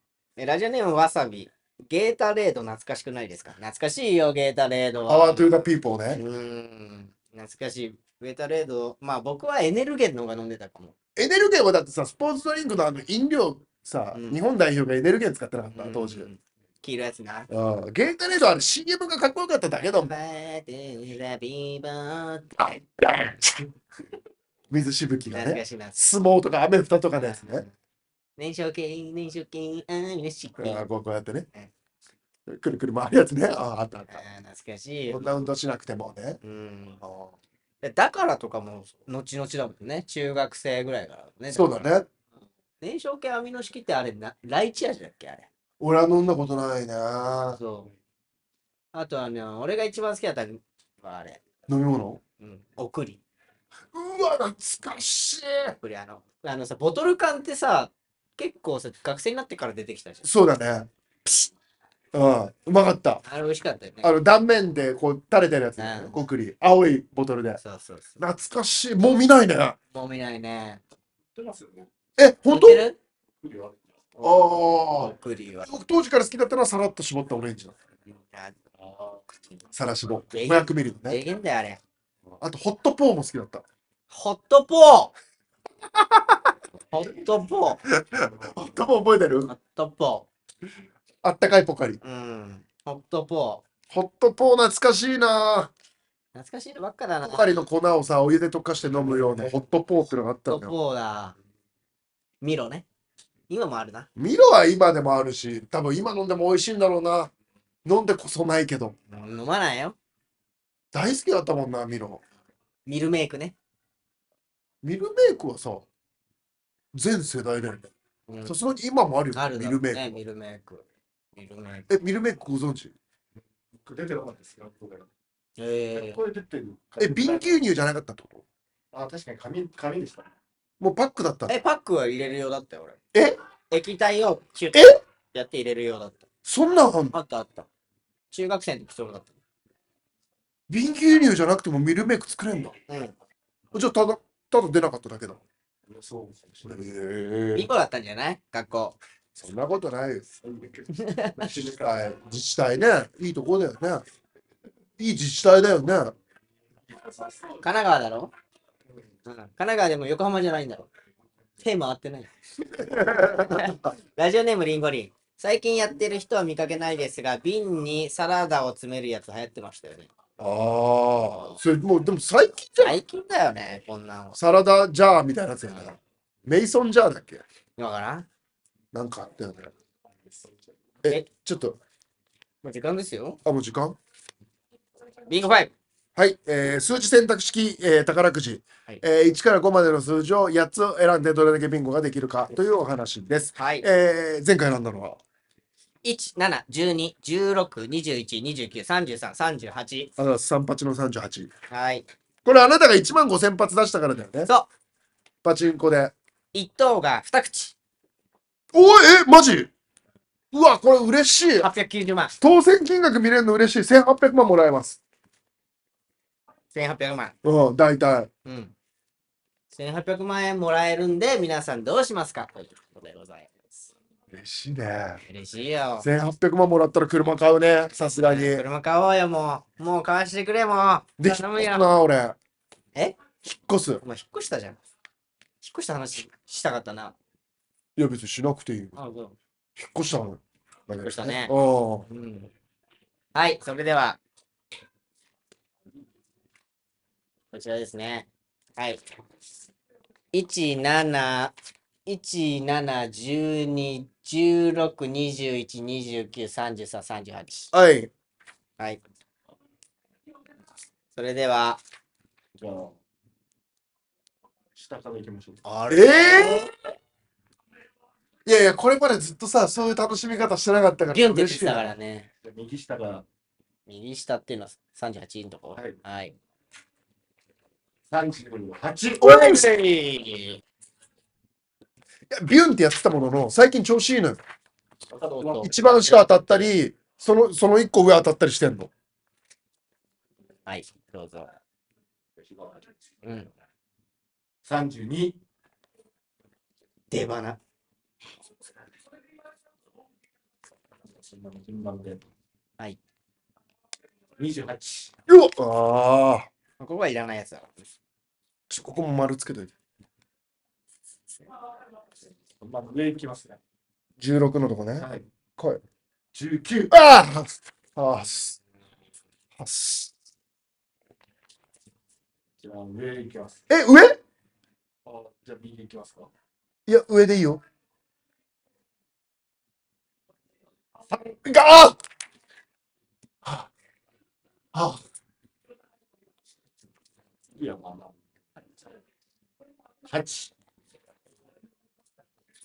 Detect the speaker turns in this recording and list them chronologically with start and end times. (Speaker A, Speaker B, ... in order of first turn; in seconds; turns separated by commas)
Speaker A: 0.4-5.6, Speaker B: 5.1-6.2, Speaker A: 6.1-10.9, Speaker B: 11.2-16.3, Speaker A: 14.1-14.4, Speaker A: 15.7-17.5, Speaker B: 17.5-20.1, Speaker A: 19.9-22.5, Speaker B: 22.6-23.7, Speaker B: 24.7-27.7, Speaker A: 25.3-26.0, Speaker A: 27.2-27.7, Speaker A: 28.4-30.9, Speaker B: 30.6-31.5, Speaker B: 32.5-34.2, Speaker A: 34.1-35.2, Speaker B: 35.1-36.4, Speaker A: 36.4-37.0, Speaker A: 37.8-41.9, Speaker B: 41.5-42.1, Speaker A: 42.8-45.5, Speaker B: 45.8-47.6, Speaker A: 47.5-47.9, Speaker A: 48.9-51.4, Speaker B: 51.7-52.2, Speaker A: 52.4-53.2, Speaker B: 53.9-55.8, Speaker A: 55.8-60.3, Speaker B: 60.2-61.5, Speaker B: 62.1-63.2, Speaker A: 63.2-64.1, Speaker B: 64.0-67.6, Speaker A: 65.8-66.1, Speaker A: 67.6-68.2, Speaker B: 68.2-69.8, Speaker A: 69.9-70.8, Speaker C: 71.3-71.9, Speaker B: 72.2-72.8, Speaker A: 72.5-73.0, Speaker C: 73.4-74.5, Speaker B: 74.2-75.1, Speaker A: 75.0-75.7, Speaker B: 75.7-77.8, Speaker C: 78.8-79.6, Speaker B: 79.7-81.2, Speaker A: 80.3-81.8, Speaker B: 82.4-83.6, Speaker A: 84.1-85.1, Speaker B: 85.9-86.6, Speaker A: 86.9-87.8, Speaker B: 87.9-89.5, Speaker A: 89.5-90.3, Speaker B: 91.2-92.0, Speaker A: 92.0-93.6, Speaker B: 93.9-95.7, Speaker A: 96.3-97.6, Speaker B: 97.2-100.7, Speaker A: 100.5-101.4, Speaker A: 102.4-102.8, Speaker A: 103.5-104.1, Speaker B: 104.2-107.3, Speaker B: 107.8-109.0, Speaker A: 109.1-110.0, Speaker B: 110.9-112.2, Speaker A: 112.9-113.6, Speaker B: 114.8-115.9, Speaker B: 116.9-117.9, Speaker A: 118.3-118.5, Speaker B: 118.5-120.2, Speaker A: 119.3-121.9, Speaker B: 121.9-123.0, Speaker C: 123.8-125.1, Speaker A: 125.6-126.2, Speaker C: 126.0-127.6, Speaker B: 127.0-128.4, Speaker C: 128.9-130.3, Speaker B: 130.8-131.6, Speaker A: 131.5-133.0, Speaker A: 133.7-136.3, Speaker B: 134.7-135.0, Speaker B: 136.4-137.1, Speaker A: 137.1-137.7, Speaker A: 138.3-139.3, Speaker B: 140.7-142.8, Speaker A: 142.9-143.2, Speaker B: 143.7-145.4, Speaker C: 145.9-146.8, Speaker B: 146.7-147.7, Speaker A: 147.5-149.0, Speaker B: 149.3-150.3, Speaker C: 150.4-152.2, Speaker A: 150.9-151.5, Speaker B: 151.8-154.1, Speaker B: 155.0-156.2, Speaker C: 156.9-157.6, Speaker A: 157.6-158.3, Speaker A: 159.3-160.9, Speaker A: 161.6-170.1, Speaker B: 162.7-163.8, Speaker B: 170.4-173.0, Speaker A: 172.8-174.4, Speaker B: 174.4-177.4, Speaker A: 175.7-176.0, Speaker A: 177.8-178.3, Speaker B: 178.9-179.7, Speaker B: 181.0-181.8, Speaker A: 182.6-183.4, Speaker B: 183.4-184.0, Speaker A: 185.3-185.7, Speaker B: 186.2-195.2, Speaker A: 193.6-193.9, Speaker A: 196.0-200.1, Speaker B: 200.2-201.5, Speaker A: 201.7-202.1, Speaker B: 202.4-204.5, Speaker B: 205.4-206.2, Speaker A: 206.5-207.8, Speaker B: 208.7-209.7, Speaker B: 210.5-211.7, Speaker A: 211.6-212.4, Speaker B: 212.4-215.0, Speaker A: 216.7-217.3, Speaker B: 217.4-218.3, Speaker A: 218.4-218.7, Speaker A: 219.7-223.9, Speaker B: 224.3-225.2, Speaker A: 225.2-226.1, Speaker B: 226.0-228.6, Speaker A: 228.2-231.9, Speaker B: 231.2-232.4, Speaker B: 233.4-234.0, Speaker A: 234.0-234.8, Speaker A: 235.6-237.2, Speaker B: 238.0-239.0, Speaker A: 239.0-239.4, Speaker B: 239.8-242.1, Speaker A: 241.0-241.5, Speaker A: 242.1-242.5, Speaker A: 243.3-244.2, Speaker A: 247.5-249.0, Speaker A: 250.3-251.5, Speaker A: 252.1-257.7, Speaker B: 257.7-258.1, Speaker A: 261.1-261.8, Speaker C: 262.6-262.9, Speaker C: 264.8-265.6, Speaker A: 265.6-266.8, Speaker B: 265.9-266.7, Speaker B: 268.5-271.9, Speaker A: 271.1-272.3, Speaker C: 272.4-273.2, Speaker A: 273.9-276.4, Speaker C: 278.1-279.4, Speaker A: 279.2-280.6, Speaker B: 279.2-279.7, Speaker B: 282.3-284.4, Speaker C: 285.1-286.7, Speaker A: 285.4-285.7, Speaker B: 285.6-288.9, Speaker A: 290.7-291.5, Speaker C: 292.4-292.9, Speaker A: 293.2-293.5, Speaker C: 294.6-295.4, Speaker A: 297.1-297.6, Speaker C: 301.1-302.2, Speaker C: 304.4-305.1, Speaker B: 305.3-306.5, Speaker A: 306.8-307.9, Speaker B: 308.7-309.7, Speaker C: 312.6-313.6, Speaker B: 314.2-315.1, Speaker C: 315.0-315.3, Speaker B: 315.6-315.8, Speaker C: 316.3-316.9, Speaker B: 316.9-318.6, Speaker B: 319.6-320.1, Speaker C: 322.6-323.6, Speaker B: 323.7-324.2, Speaker C: 325.1-326.3, Speaker B: 326.9-327.6, Speaker B: 331.4-332.0, Speaker C: 337.6-338.1, Speaker C: 340.1-340.5